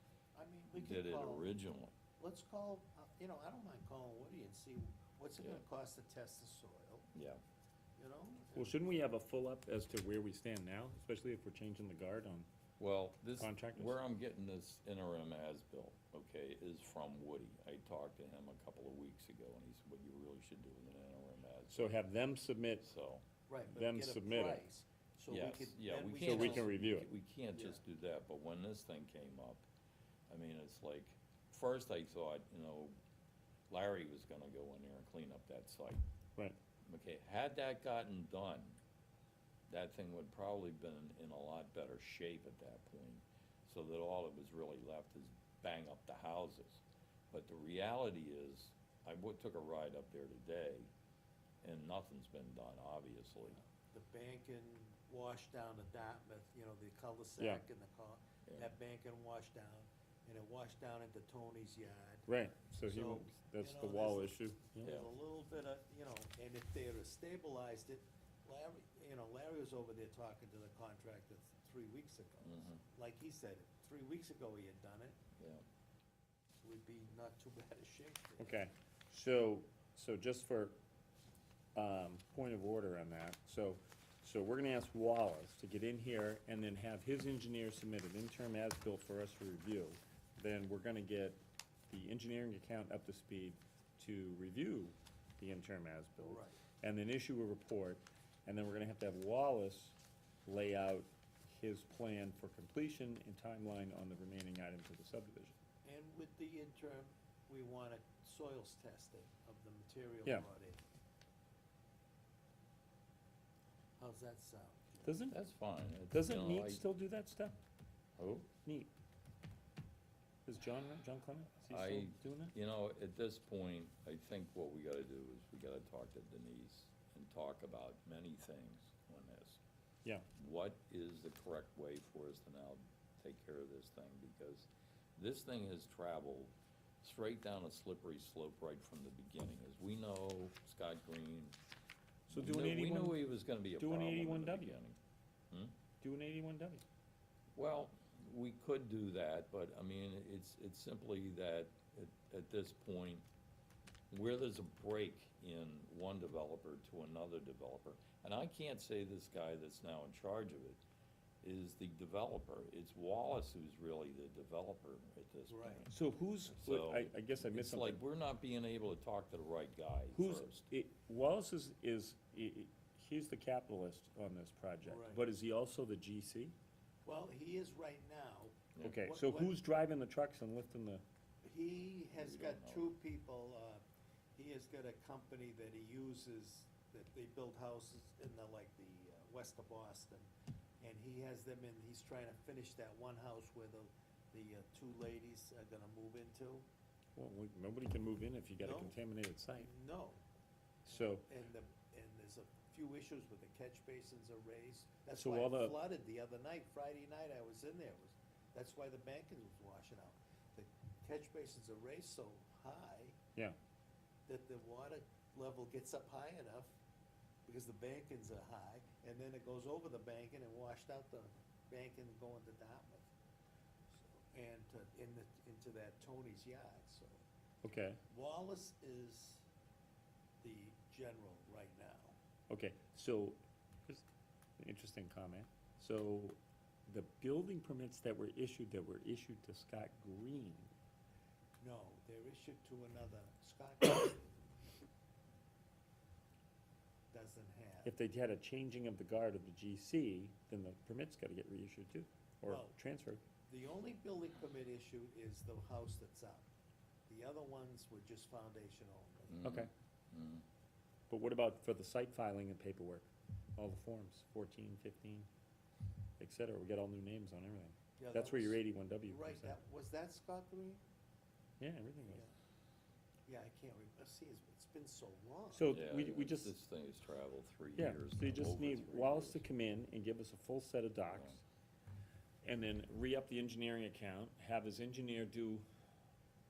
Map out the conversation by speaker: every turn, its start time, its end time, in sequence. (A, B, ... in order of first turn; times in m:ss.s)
0:00.3-0:01.5 A
0:00.7-0:01.9 B
0:02.2-0:07.1 A
0:07.1-0:07.4 B
0:08.0-0:09.1 A
0:08.6-0:12.5 C
0:12.8-0:21.9 B
0:13.4-0:14.0 C
0:21.7-0:22.9 C
0:22.8-0:23.2 B
0:23.5-0:26.7 A
0:23.7-0:24.6 C
0:25.3-0:29.6 B
0:26.2-0:27.1 C
0:27.5-0:27.8 A
0:30.3-0:32.9 B
0:33.7-0:36.0 B
0:36.8-0:38.8 B
0:39.7-0:50.9 B
0:51.6-0:53.6 B
0:53.5-1:15.2 A
0:58.5-0:58.7 B
1:02.3-1:04.9 C
1:04.8-1:05.1 B
1:12.4-1:12.8 B
1:15.4-1:15.6 B
1:16.6-1:18.6 A
1:18.4-1:20.8 C
1:21.7-1:45.6 C
1:36.2-1:36.6 A
1:45.8-1:50.8 A
1:54.0-1:55.2 A
1:55.0-1:55.4 C
1:55.3-1:56.8 B
1:56.1-1:57.6 C
1:58.2-1:58.5 B
1:58.6-1:58.9 C
2:00.4-2:02.5 C
2:01.7-2:09.6 B
2:10.3-2:21.6 B
2:22.3-2:25.0 B
2:22.3-2:24.8 C
2:26.0-2:26.8 C
2:27.5-2:33.2 B
2:34.1-2:40.8 B
2:41.4-2:46.0 B
2:45.5-2:45.8 A
2:45.9-2:48.0 C
2:46.5-2:50.6 B
2:50.1-2:56.5 C
2:54.8-2:55.2 A
2:57.0-2:59.6 A
2:58.7-2:59.0 B
2:58.8-3:01.0 C
3:01.4-3:03.8 A
3:02.1-3:02.9 B
3:04.4-3:10.3 A
3:10.8-3:16.6 A
3:17.2-3:19.7 C
3:18.6-3:19.0 A
3:19.5-3:20.2 A
3:20.8-3:21.3 C
3:20.9-3:33.2 A
3:25.1-3:25.8 C
3:34.3-3:36.7 A
3:37.4-3:43.1 A
3:43.9-3:47.2 A
3:47.6-3:48.0 C
3:48.1-3:49.4 A
3:50.4-3:52.2 A
3:52.5-3:54.0 C
3:54.6-4:00.7 C
4:01.6-4:04.5 A
4:07.1-4:07.9 A
4:07.8-4:13.2 C
4:12.4-4:12.8 A
4:13.4-4:16.5 A
4:17.1-4:19.4 A
4:19.3-4:20.4 B
4:19.4-4:19.7 C
4:21.1-4:25.3 C
4:26.2-4:29.5 C
4:28.0-4:30.8 A
4:31.6-4:32.2 C
4:33.3-4:35.7 A
4:35.5-4:36.5 C
4:35.7-4:39.5 B
4:37.8-4:41.4 C
4:42.4-4:45.6 C